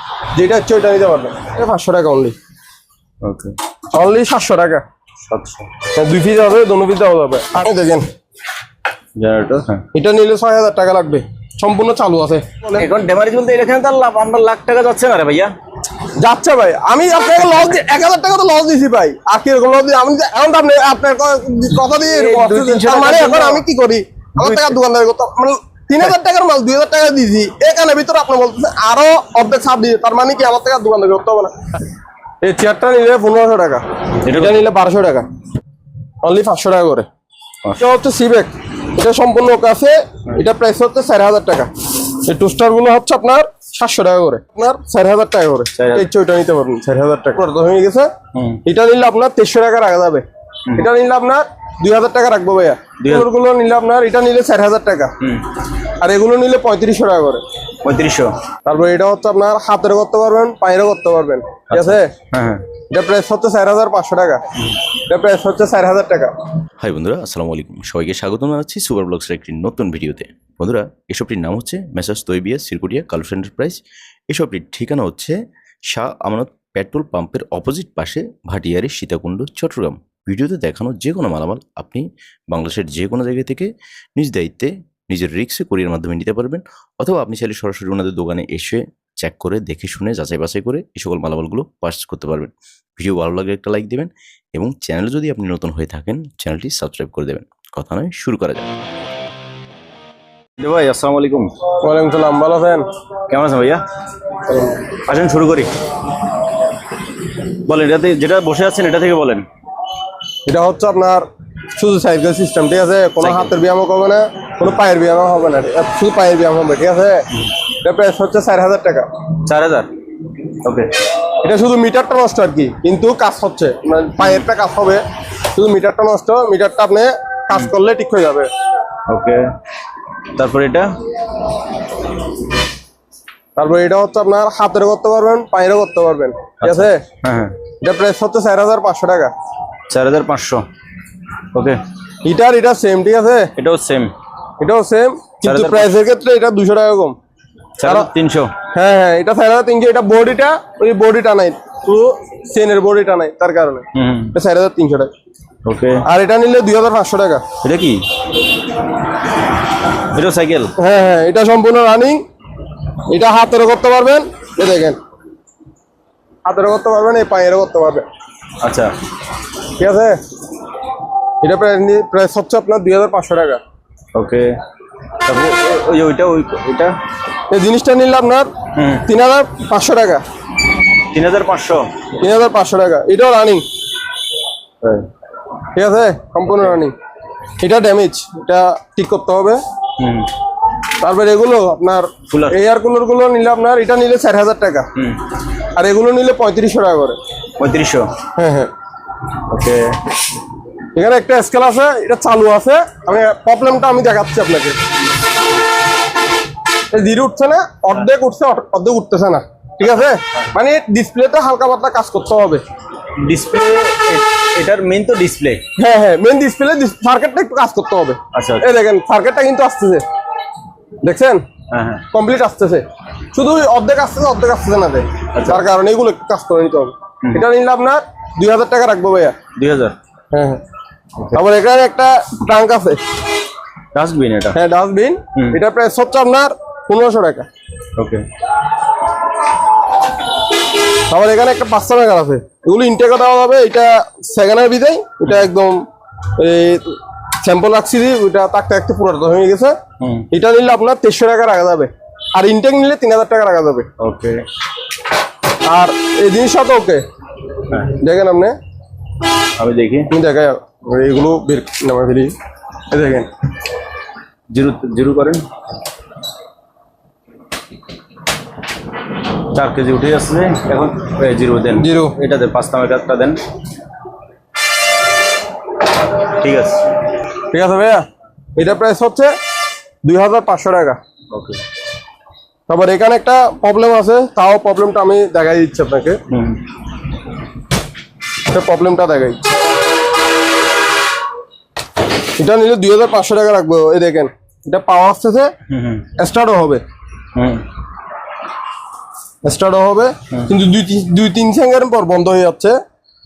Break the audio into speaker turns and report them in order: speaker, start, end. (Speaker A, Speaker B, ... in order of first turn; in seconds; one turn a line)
Speaker A: 0.4-2.4
Speaker B: 3.2-3.5
Speaker A: 4.0-4.8
Speaker B: 5.3-5.7
Speaker A: 6.0-8.1
Speaker B: 9.2-9.8
Speaker A: 9.9-12.9
Speaker B: 12.8-15.5
Speaker A: 16.2-31.6
Speaker B: 22.1-23.6
Speaker B: 24.4-24.8
Speaker A: 32.4-35.3
Speaker B: 34.3-34.7
Speaker A: 36.2-37.1
Speaker A: 37.8-41.7
Speaker A: 42.2-48.1
Speaker B: 45.8-46.1
Speaker B: 48.3-48.6
Speaker A: 48.6-55.1
Speaker B: 53.0-53.3
Speaker A: 56.0-57.4
Speaker B: 57.8-58.4
Speaker A: 58.7-62.1
Speaker B: 61.7-62.6
Speaker A: 62.9-64.5
Speaker A: 65.1-66.3
Speaker C: 66.8-73.8
Speaker C: 74.3-75.4
Speaker C: 75.9-98.7
Speaker B: 100.6-101.5
Speaker A: 101.8-102.9
Speaker B: 103.3-103.8
Speaker A: 104.5-104.8
Speaker B: 105.0-105.7
Speaker B: 107.7-109.5
Speaker A: 110.5-117.3
Speaker B: 113.2-113.5
Speaker A: 117.8-119.1
Speaker B: 119.5-119.9
Speaker B: 120.6-120.9
Speaker A: 121.4-125.0
Speaker A: 125.5-128.5
Speaker B: 129.1-129.5
Speaker B: 130.4-130.9
Speaker A: 133.6-137.0
Speaker B: 136.6-137.6
Speaker A: 137.8-139.3
Speaker B: 139.9-140.7
Speaker B: 141.5-141.8
Speaker A: 142.2-143.5
Speaker B: 143.6-144.1
Speaker A: 144.6-147.2
Speaker B: 145.4-145.9
Speaker B: 147.8-148.5
Speaker A: 148.7-155.1
Speaker B: 153.9-154.3
Speaker B: 155.7-156.0
Speaker A: 156.0-157.4
Speaker B: 157.6-158.0
Speaker B: 160.1-160.7
Speaker A: 160.8-162.2
Speaker A: 163.1-165.0
Speaker A: 166.5-168.1
Speaker B: 168.6-168.9
Speaker A: 169.8-170.2
Speaker A: 171.4-173.6
Speaker B: 174.2-174.6
Speaker B: 175.2-177.0
Speaker A: 177.5-178.5
Speaker B: 178.8-179.1
Speaker A: 179.1-180.2
Speaker B: 181.1-181.9
Speaker A: 182.2-183.7
Speaker B: 184.8-185.1
Speaker A: 185.8-186.9
Speaker A: 187.6-189.6
Speaker B: 190.0-190.3
Speaker A: 191.0-194.9
Speaker B: 192.3-192.6
Speaker A: 195.8-197.2
Speaker B: 197.6-198.1
Speaker A: 198.4-198.7
Speaker B: 199.5-200.0
Speaker A: 200.9-204.8
Speaker A: 206.9-212.6
Speaker B: 213.2-215.6
Speaker A: 215.8-220.0
Speaker B: 218.3-218.7
Speaker A: 221.0-221.4
Speaker B: 221.7-222.0
Speaker A: 222.1-229.4
Speaker B: 225.3-225.6
Speaker B: 229.6-230.0
Speaker A: 230.3-230.6
Speaker A: 231.3-233.0
Speaker B: 233.9-234.6
Speaker A: 234.5-237.5
Speaker B: 238.0-238.2
Speaker A: 241.1-245.8
Speaker A: 246.4-249.8
Speaker B: 250.0-250.3
Speaker A: 250.3-253.9
Speaker B: 254.0-254.4
Speaker A: 255.7-257.0
Speaker A: 257.9-258.6
Speaker B: 259.6-260.1
Speaker A: 260.1-262.3
Speaker A: 262.9-263.3
Speaker B: 264.5-265.5
Speaker B: 269.5-273.4
Speaker A: 271.8-272.1
Speaker B: 276.4-276.8
Speaker A: 277.5-279.3
Speaker A: 280.1-281.0
Speaker B: 281.3-281.6
Speaker A: 282.7-286.2
Speaker B: 286.3-286.6
Speaker A: 288.5-289.4
Speaker A: 292.4-295.5
Speaker B: 295.7-296.1
Speaker A: 296.2-296.8
Speaker B: 297.4-297.6
Speaker A: 299.4-302.8